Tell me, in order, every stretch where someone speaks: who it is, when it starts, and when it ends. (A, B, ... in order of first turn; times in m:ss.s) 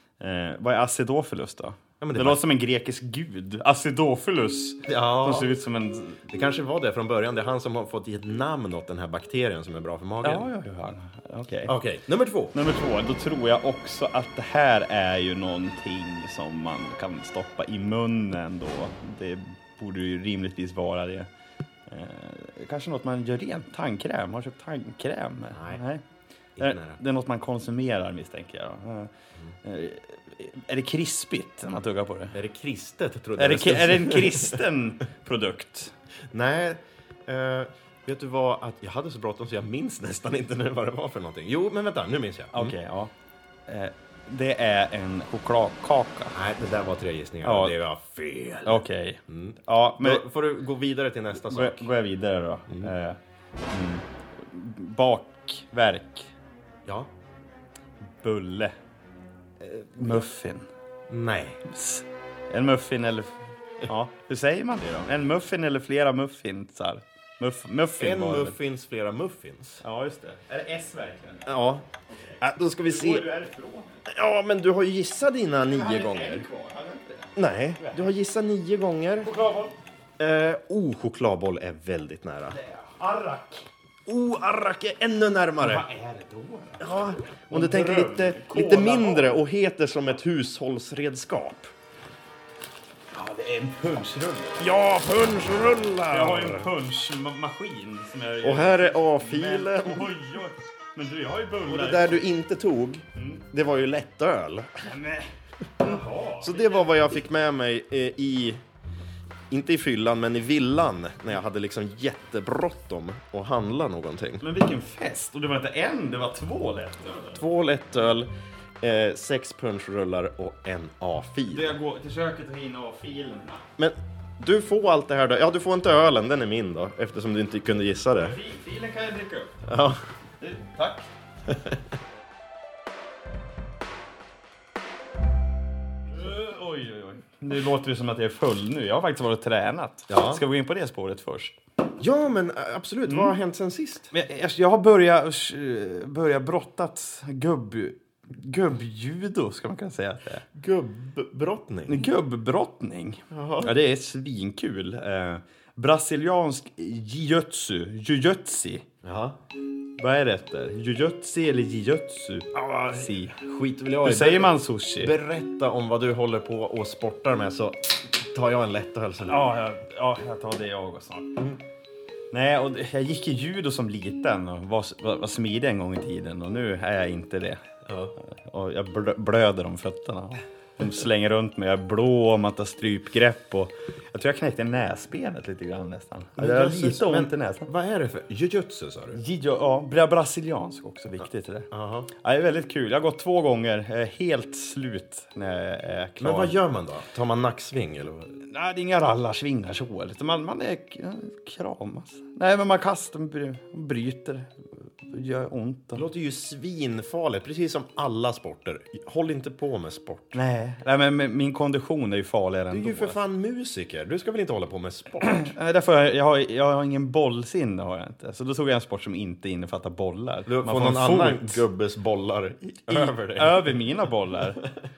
0:00.2-0:06.3 A
0:02.0-0:02.4 B
0:04.9-0:05.5 B
0:06.3-0:10.5 B
0:10.2-0:11.8 A
0:11.7-0:12.5 B
0:12.5-0:21.3 A
0:21.9-0:26.0 A
0:25.6-0:25.8 B
0:26.6-0:27.0 B
0:26.6-0:32.4 A
0:32.3-0:34.6 B
0:33.4-0:35.9 A
0:36.3-0:42.8 B
0:42.5-0:43.1 A
0:43.7-0:46.4 A
0:46.3-0:51.9 B
0:47.4-0:47.8 A
0:48.6-0:50.2 A
0:51.5-0:53.2 A
0:53.7-0:56.3 A
0:56.8-0:57.1 B
0:58.2-0:58.8 A
0:59.6-1:00.2 B
0:59.9-1:00.7 A
1:01.1-1:01.6 B
1:01.7-1:08.6 A
1:08.0-1:09.8 B
1:09.8-1:11.5 A
1:11.5-1:11.9 B
1:12.4-1:13.3 B
1:12.9-1:14.0 A
1:14.1-1:16.5 B
1:15.6-1:18.1 A
1:17.4-1:19.3 B
1:19.2-1:19.8 A
1:20.2-1:22.6 B
1:22.5-1:23.7 A
1:24.1-1:25.9 B
1:25.6-1:29.4 A
1:26.8-1:31.7 B
1:33.1-1:34.6 A
1:34.6-1:36.7 B
1:36.1-1:42.2 A
1:38.4-1:40.2 B
1:41.7-1:44.8 B
1:43.2-1:43.4 A
1:44.8-1:46.8 A
1:46.4-1:48.6 B
1:49.5-1:54.4 B
1:54.4-1:57.4 A
1:57.2-1:58.3 B
1:58.8-2:01.7 B
2:01.5-2:03.6 A
2:03.8-2:08.4 B
2:08.2-2:09.7 A
2:09.7-2:10.0 B
2:10.4-2:11.1 A
2:11.5-2:11.8 B
2:16.1-2:21.6 A
2:20.1-2:20.4 B
2:22.0-2:24.1 B
2:23.1-2:23.4 A
2:24.1-2:30.4 A
2:30.5-2:32.0 B
2:31.9-2:38.9 A
2:33.3-2:33.7 B
2:39.0-2:39.4 B
2:40.0-2:43.4 A
2:42.5-2:49.5 B
2:44.0-2:45.1 A
2:49.3-2:51.4 A
2:52.3-2:57.6 A
2:57.9-2:58.1 B
2:58.2-3:07.7 A
3:06.4-3:09.2 B
3:09.1-3:16.6 A
3:11.7-3:12.1 B
3:16.2-3:18.4 B
3:18.4-3:26.0 A
3:26.0-3:30.4 B
3:30.3-3:33.2 A
3:32.7-3:35.5 B
3:35.2-3:41.6 A
3:40.5-3:43.8 B
3:42.9-3:44.7 A